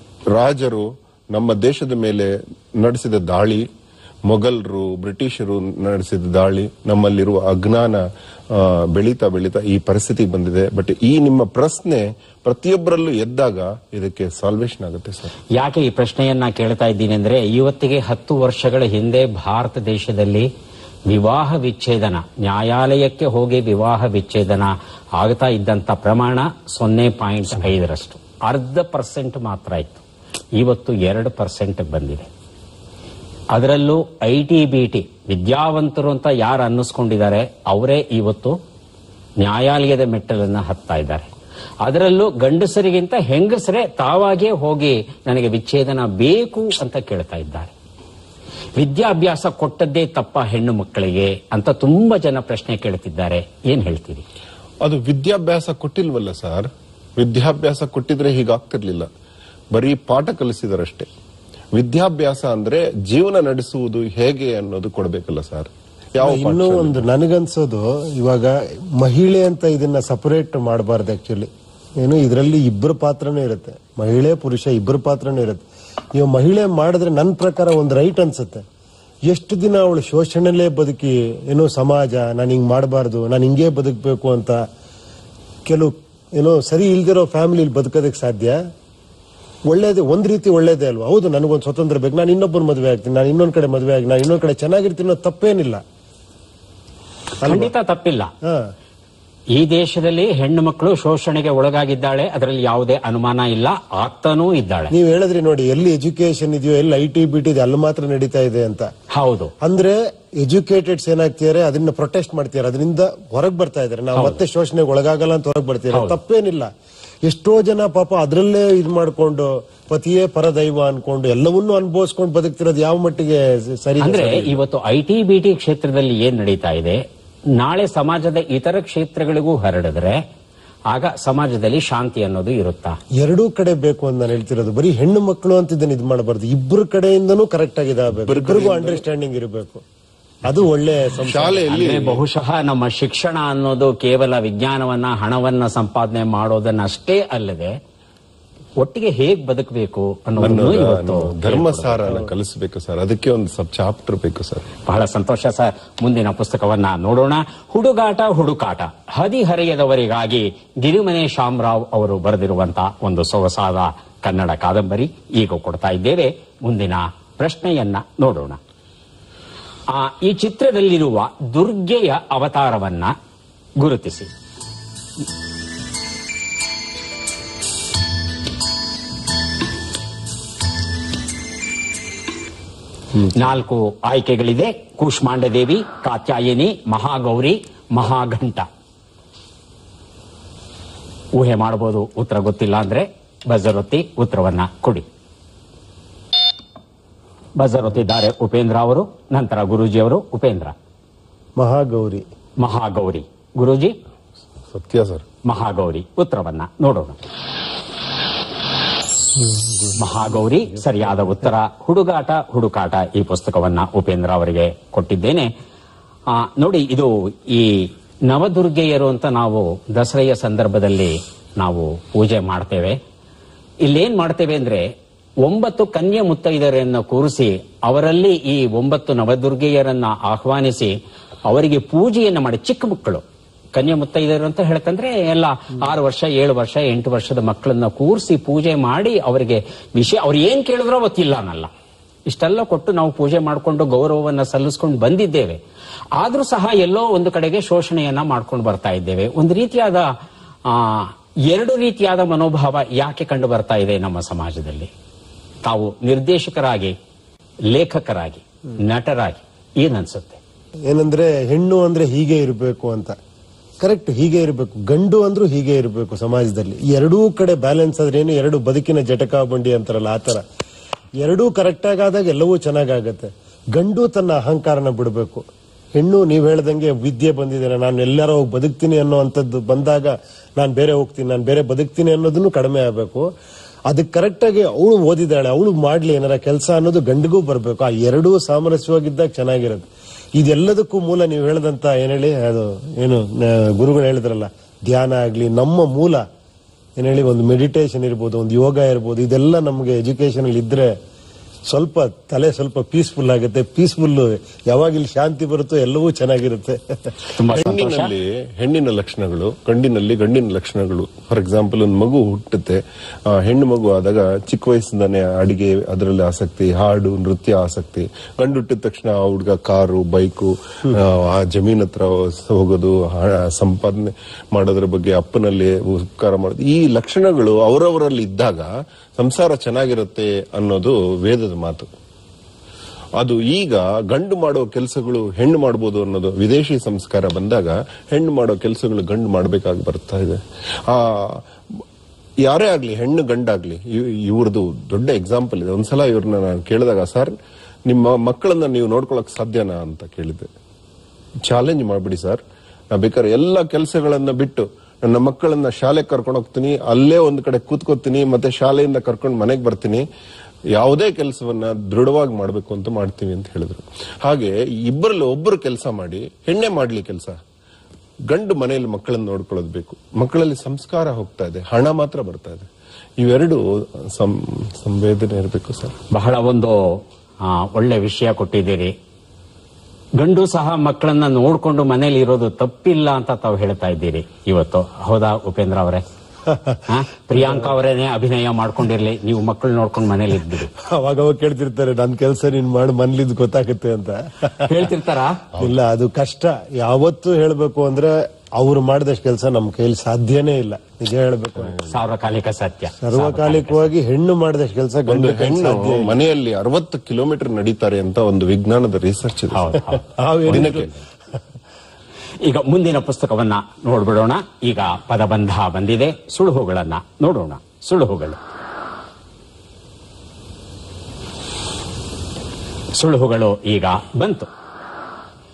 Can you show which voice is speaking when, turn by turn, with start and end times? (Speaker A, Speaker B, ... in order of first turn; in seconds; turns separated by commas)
Speaker A: 0.3-3.7, Speaker A: 4.2-15.3, Speaker B: 15.5-20.5, Speaker B: 21.1-30.0, Speaker B: 30.6-32.3, Speaker B: 33.5-38.6, Speaker B: 39.4-41.3, Speaker B: 41.8-47.7, Speaker B: 48.8-54.2, Speaker A: 54.8-59.1, Speaker A: 59.7-61.1, Speaker A: 61.7-67.0, Speaker C: 66.2-75.6, Speaker C: 76.2-78.6, Speaker C: 79.2-84.6, Speaker C: 85.7-88.6, Speaker C: 89.7-95.8, Speaker B: 97.4-98.3, Speaker C: 97.4-97.7, Speaker C: 98.4-98.7, Speaker B: 99.5-104.9, Speaker C: 104.9-108.9, Speaker B: 109.1-109.5, Speaker C: 109.6-116.7, Speaker B: 115.9-116.2, Speaker C: 117.2-124.6, Speaker B: 124.0-127.0, Speaker B: 127.5-130.2, Speaker B: 130.9-133.0, Speaker C: 133.2-139.8, Speaker A: 138.2-139.0, Speaker C: 140.4-141.7, Speaker A: 141.2-142.2, Speaker B: 141.7-147.8, Speaker B: 148.8-152.2, Speaker A: 150.4-154.7, Speaker B: 154.8-168.6, Speaker B: 169.9-173.1, Speaker B: 173.8-174.3, Speaker B: 183.2-188.7, Speaker B: 191.3-195.1, Speaker B: 197.6-200.7, Speaker C: 201.6-202.2, Speaker B: 202.6-204.0, Speaker A: 204.7-205.2, Speaker B: 205.4-207.2, Speaker B: 209.9-215.5, Speaker B: 216.3-223.0, Speaker B: 223.8-224.9, Speaker B: 225.4-233.2, Speaker B: 233.7-241.7, Speaker B: 242.3-245.6, Speaker B: 246.2-250.1, Speaker B: 250.6-254.9, Speaker B: 255.6-256.9, Speaker B: 257.7-260.4, Speaker C: 260.9-263.1, Speaker C: 263.8-270.4, Speaker C: 271.2-275.4, Speaker C: 276.0-283.3, Speaker C: 283.9-296.2, Speaker C: 297.0-300.9, Speaker C: 301.7-307.1, Speaker B: 307.3-308.1, Speaker A: 307.5-331.9, Speaker A: 333.2-341.8, Speaker A: 342.4-347.3, Speaker A: 347.9-350.5, Speaker A: 351.4-352.4, Speaker A: 352.9-360.1, Speaker A: 360.7-367.4, Speaker A: 368.3-372.7, Speaker A: 373.2-376.0, Speaker B: 376.1-378.9, Speaker B: 380.2-386.0, Speaker C: 386.4-387.7, Speaker B: 386.9-390.7, Speaker C: 390.8-394.9, Speaker B: 394.6-395.4, Speaker C: 395.6-401.8, Speaker B: 401.9-403.9, Speaker C: 403.0-406.1, Speaker A: 405.1-410.9, Speaker B: 409.5-411.0, Speaker C: 410.2-410.9, Speaker B: 412.4-418.4, Speaker B: 422.9-424.5